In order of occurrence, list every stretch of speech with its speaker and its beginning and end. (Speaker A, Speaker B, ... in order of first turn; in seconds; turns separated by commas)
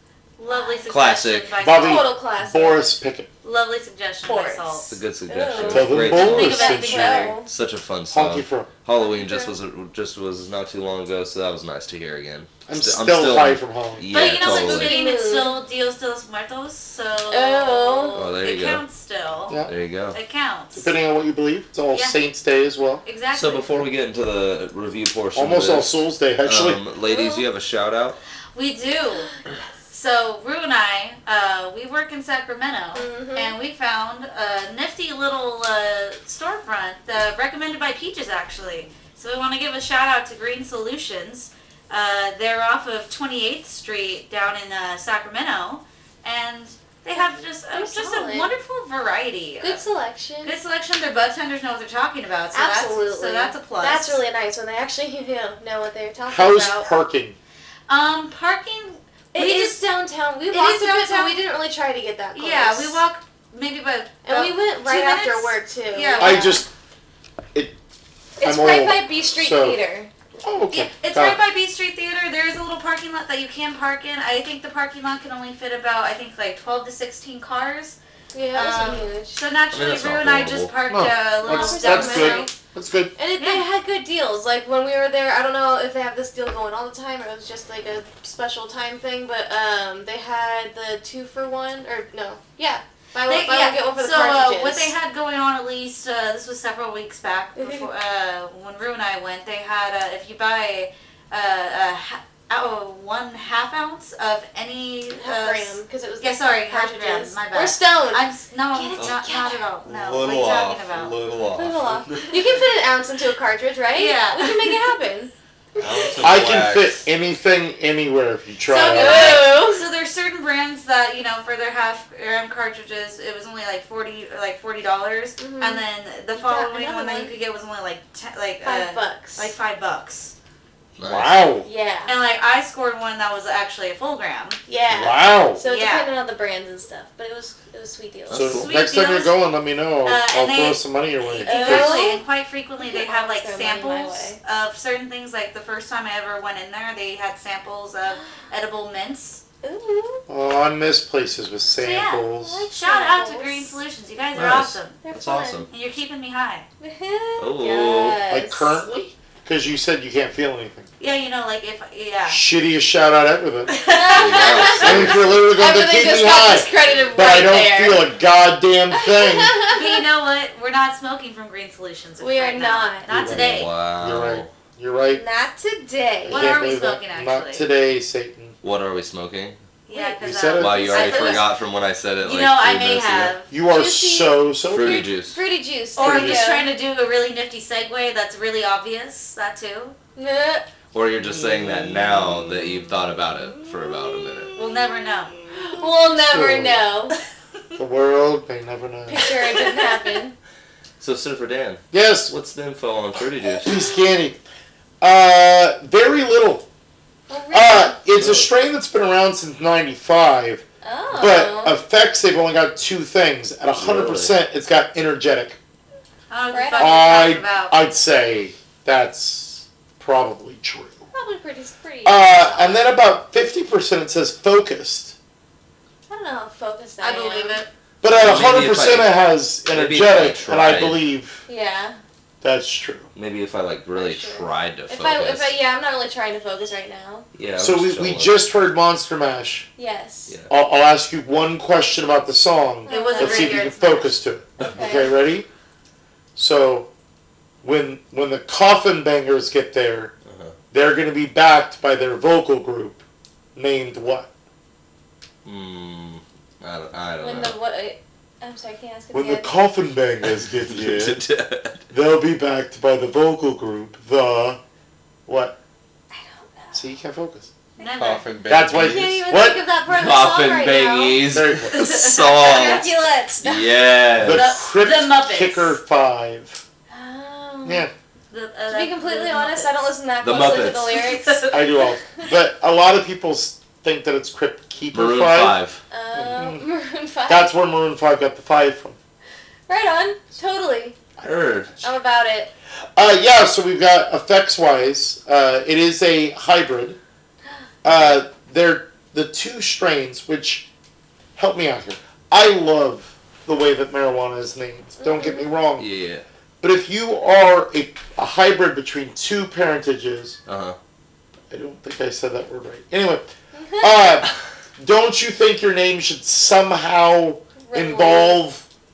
Speaker A: 0.4-2.1, Speaker B: 0.5-0.9, Speaker C: 0.9-1.6, Speaker D: 1.6-3.3, Speaker B: 1.7-2.9, Speaker A: 3.4-5.0, Speaker B: 4.2-7.5, Speaker C: 4.9-6.9, Speaker D: 5.5-7.3, Speaker A: 6.1-7.4, Speaker C: 7.4-14.9, Speaker D: 8.1-8.7, Speaker B: 9.1-9.5, Speaker D: 12.7-14.2, Speaker A: 14.1-19.6, Speaker B: 14.4-15.6, Speaker B: 17.3-18.3, Speaker C: 18.1-18.8, Speaker C: 19.7-20.2, Speaker A: 20.1-20.9, Speaker D: 20.7-23.0, Speaker A: 21.9-22.2, Speaker A: 23.1-23.7, Speaker C: 23.3-25.9, Speaker D: 25.4-26.8, Speaker C: 26.4-28.2, Speaker B: 27.0-27.4, Speaker A: 28.5-29.3, Speaker A: 29.9-49.8, Speaker B: 33.0-33.5, Speaker B: 47.2-48.5, Speaker B: 49.6-50.5, Speaker A: 50.4-54.2, Speaker B: 52.5-56.9, Speaker D: 56.3-57.4, Speaker A: 57.9-59.8, Speaker B: 59.3-63.0, Speaker A: 60.5-61.4, Speaker A: 62.3-66.6, Speaker B: 64.2-66.6, Speaker D: 66.2-66.7, Speaker B: 68.4-70.1, Speaker D: 68.4-69.8, Speaker D: 70.4-71.4, Speaker A: 70.9-78.0, Speaker B: 78.3-79.4, Speaker A: 78.5-82.5, Speaker C: 79.7-80.7, Speaker D: 80.9-83.2, Speaker B: 81.4-82.5, Speaker B: 83.2-94.9, Speaker A: 83.4-83.7, Speaker A: 93.3-111.2, Speaker B: 97.6-97.9, Speaker B: 105.2-109.7, Speaker E: 109.8-112.6, Speaker B: 111.5-116.2, Speaker A: 114.0-114.8, Speaker E: 115.8-117.1, Speaker D: 116.2-119.6, Speaker A: 118.7-130.3, Speaker B: 118.8-119.9, Speaker B: 125.4-125.8, Speaker B: 126.4-127.3, Speaker B: 128.6-129.5, Speaker C: 131.0-131.5, Speaker D: 131.0-131.7, Speaker B: 131.7-132.1, Speaker A: 132.1-134.6, Speaker B: 134.7-138.6, Speaker D: 134.9-135.6, Speaker A: 135.7-136.1, Speaker C: 138.3-138.7, Speaker D: 138.3-142.1, Speaker A: 138.6-139.3, Speaker A: 140.1-149.4, Speaker B: 141.4-142.2, Speaker B: 142.8-144.4, Speaker B: 149.6-150.2, Speaker D: 150.3-152.7, Speaker A: 151.8-155.0, Speaker B: 152.4-153.8, Speaker C: 154.3-155.7, Speaker B: 155.0-155.7, Speaker A: 155.7-156.7, Speaker B: 156.8-158.9, Speaker C: 157.4-158.2, Speaker D: 158.3-160.9, Speaker A: 161.0-162.4, Speaker D: 162.3-163.8, Speaker A: 163.7-165.1, Speaker B: 163.9-168.1, Speaker C: 164.1-165.4, Speaker D: 164.8-169.6, Speaker C: 166.8-167.3, Speaker B: 169.0-170.0, Speaker A: 169.7-173.7, Speaker B: 172.2-173.1, Speaker D: 173.1-175.2, Speaker C: 173.2-174.5, Speaker B: 175.1-176.5, Speaker D: 176.3-178.6, Speaker A: 176.3-177.7, Speaker C: 178.6-179.6, Speaker A: 179.9-181.5, Speaker B: 179.9-181.4, Speaker D: 180.2-181.0, Speaker C: 180.6-183.3, Speaker A: 182.2-183.5, Speaker D: 183.5-185.1, Speaker B: 183.7-186.7, Speaker C: 184.7-185.4, Speaker A: 186.0-190.0, Speaker D: 186.0-186.6, Speaker B: 190.2-190.7, Speaker C: 190.9-194.6, Speaker D: 191.3-192.6, Speaker B: 193.3-194.5, Speaker A: 194.6-195.3, Speaker B: 195.5-197.2, Speaker D: 196.3-196.8, Speaker D: 197.8-199.2, Speaker B: 199.1-200.3, Speaker A: 199.2-199.9, Speaker C: 201.0-203.7, Speaker D: 201.9-202.3, Speaker D: 203.6-204.4, Speaker D: 205.0-206.7, Speaker B: 207.3-208.0, Speaker D: 207.5-210.6, Speaker C: 208.2-208.5, Speaker B: 210.8-211.8, Speaker D: 211.2-215.6, Speaker C: 213.8-214.4, Speaker A: 216.3-217.8, Speaker B: 216.5-217.2, Speaker D: 216.8-221.0, Speaker B: 221.1-222.9, Speaker D: 222.1-225.2, Speaker B: 226.1-227.6, Speaker A: 227.0-227.7, Speaker D: 228.0-231.4, Speaker C: 228.1-229.1, Speaker C: 229.7-231.0, Speaker B: 231.5-232.0, Speaker D: 232.4-233.1, Speaker C: 233.2-235.5, Speaker B: 233.9-237.3, Speaker C: 237.3-238.3, Speaker D: 237.6-239.7, Speaker B: 239.8-240.3, Speaker D: 240.5-245.5, Speaker B: 242.9-243.7, Speaker A: 242.9-244.1, Speaker B: 244.6-245.1, Speaker D: 246.4-246.9, Speaker D: 247.6-250.1, Speaker C: 250.3-250.6, Speaker D: 250.7-253.0, Speaker D: 253.6-254.3, Speaker C: 255.4-257.6, Speaker B: 257.2-259.5, Speaker D: 259.1-261.2, Speaker C: 260.3-261.9, Speaker D: 261.9-264.6, Speaker D: 265.3-265.6, Speaker B: 266.1-266.9, Speaker D: 266.7-267.5, Speaker B: 267.8-268.0, Speaker A: 267.8-268.2, Speaker E: 268.0-269.5, Speaker D: 268.5-269.6, Speaker B: 268.7-271.2, Speaker C: 269.9-274.5, Speaker D: 271.3-271.9, Speaker A: 271.7-272.9, Speaker B: 272.2-273.8, Speaker D: 274.2-276.6, Speaker A: 274.2-275.8, Speaker B: 276.9-277.9, Speaker D: 277.6-277.9, Speaker A: 278.3-279.9, Speaker B: 278.7-281.6, Speaker C: 280.2-281.0, Speaker A: 280.9-281.6, Speaker D: 281.5-285.6, Speaker C: 284.9-285.8, Speaker B: 285.9-287.5, Speaker D: 286.1-286.7, Speaker D: 287.3-289.0, Speaker B: 289.7-291.0, Speaker C: 291.2-291.7, Speaker B: 291.8-292.5, Speaker D: 293.0-297.0, Speaker D: 297.8-300.7, Speaker D: 301.4-305.9, Speaker B: 305.0-305.5, Speaker C: 305.8-306.2, Speaker D: 306.6-310.4, Speaker C: 310.5-310.8, Speaker D: 311.5-313.3, Speaker B: 313.5-314.0, Speaker D: 313.8-318.6, Speaker B: 317.6-318.4